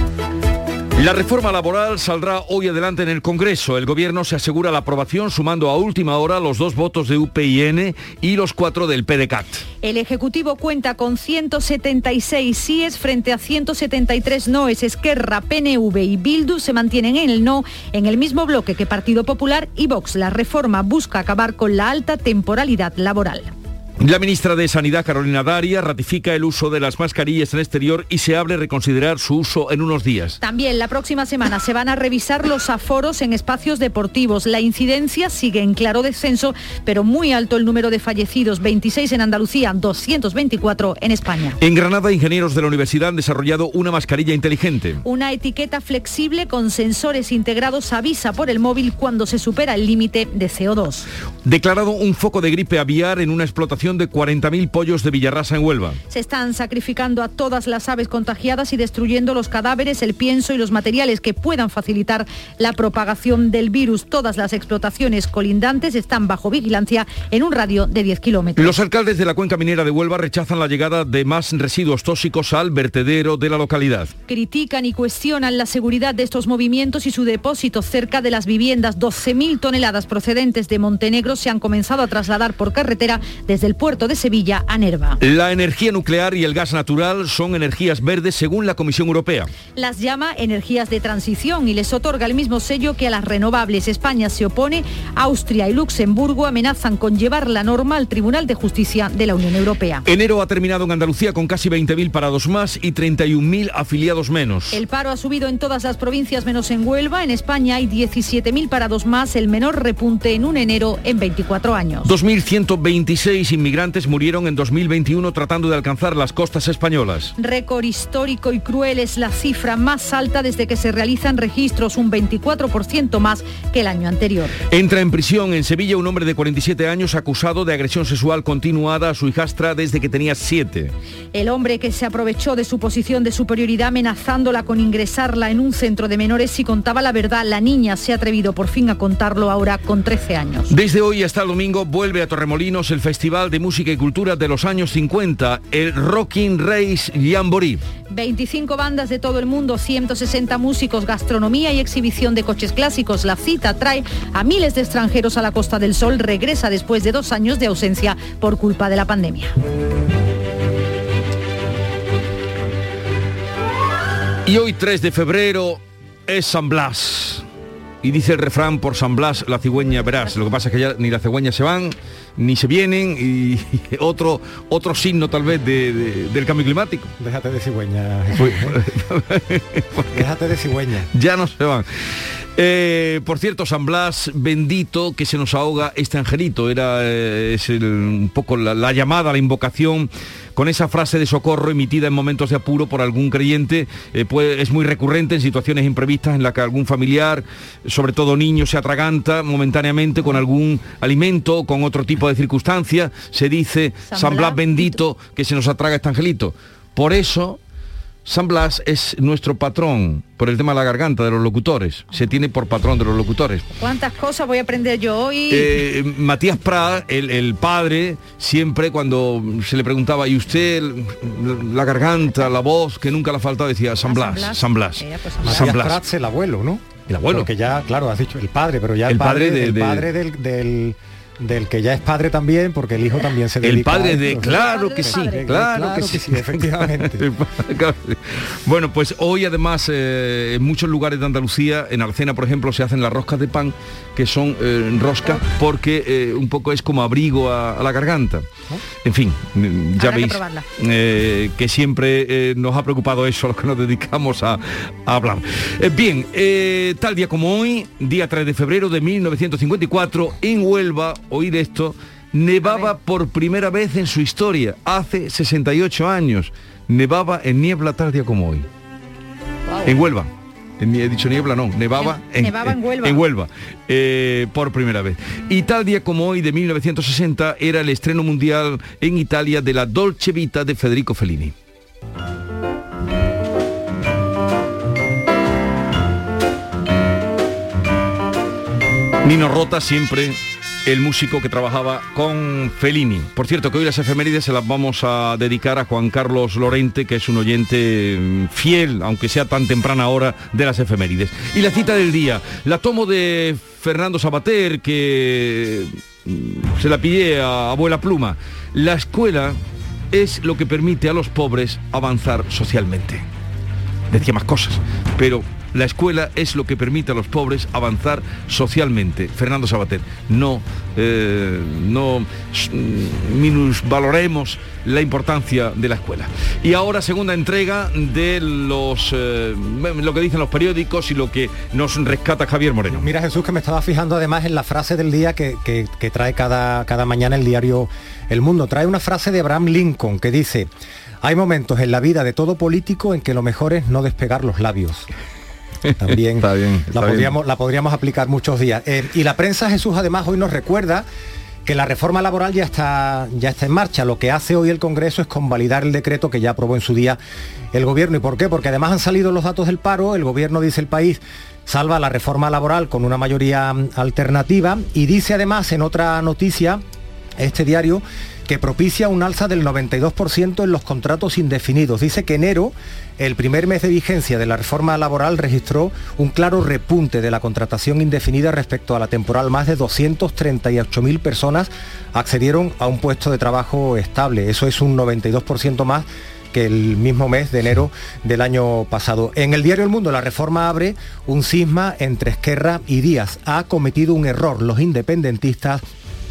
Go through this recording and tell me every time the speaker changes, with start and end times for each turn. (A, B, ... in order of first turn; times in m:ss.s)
0:01.0-0:09.6 A
0:09.8-0:23.5 B
0:24.0-0:30.4 A
0:30.4-0:41.6 B
0:41.6-0:45.0 A
0:45.0-0:51.1 B
0:51.4-0:56.0 A
0:56.1-1:08.8 B
1:08.6-1:14.1 A
1:14.3-1:25.2 B
1:25.2-1:29.5 A
1:29.8-1:40.0 B
1:40.0-1:44.8 A
1:44.7-1:52.1 B
1:52.0-1:57.3 A
1:57.4-2:04.5 B
2:04.7-2:10.9 A
2:11.3-2:20.7 B
2:20.7-2:27.8 A
2:28.1-2:39.5 B
2:44.4-2:47.4 A
2:48.0-2:57.1 A
2:57.2-2:58.8 C
2:58.4-3:00.3 A
3:00.1-3:01.1 C
3:01.1-3:01.8 A
3:02.6-3:27.6 A
3:24.1-3:25.0 B
3:28.2-3:33.6 A
3:33.8-3:35.8 B
3:35.5-3:46.0 A
3:44.0-3:45.7 B
3:45.4-3:57.2 C
3:47.1-3:47.5 A
3:49.1-3:50.1 A
3:53.6-4:08.5 A
3:54.3-3:55.4 B
4:09.0-4:28.6 A
4:10.0-4:10.6 B
4:29.8-4:41.5 A
4:32.0-4:33.2 B
4:49.2-5:09.6 A
5:10.1-5:13.2 A
5:14.1-5:33.1 A
5:32.9-5:40.7 C
5:41.2-5:45.1 C
5:45.9-5:47.3 A
5:46.0-5:51.0 C
5:51.6-5:57.2 C
5:57.7-6:06.8 C
6:07.4-6:35.8 C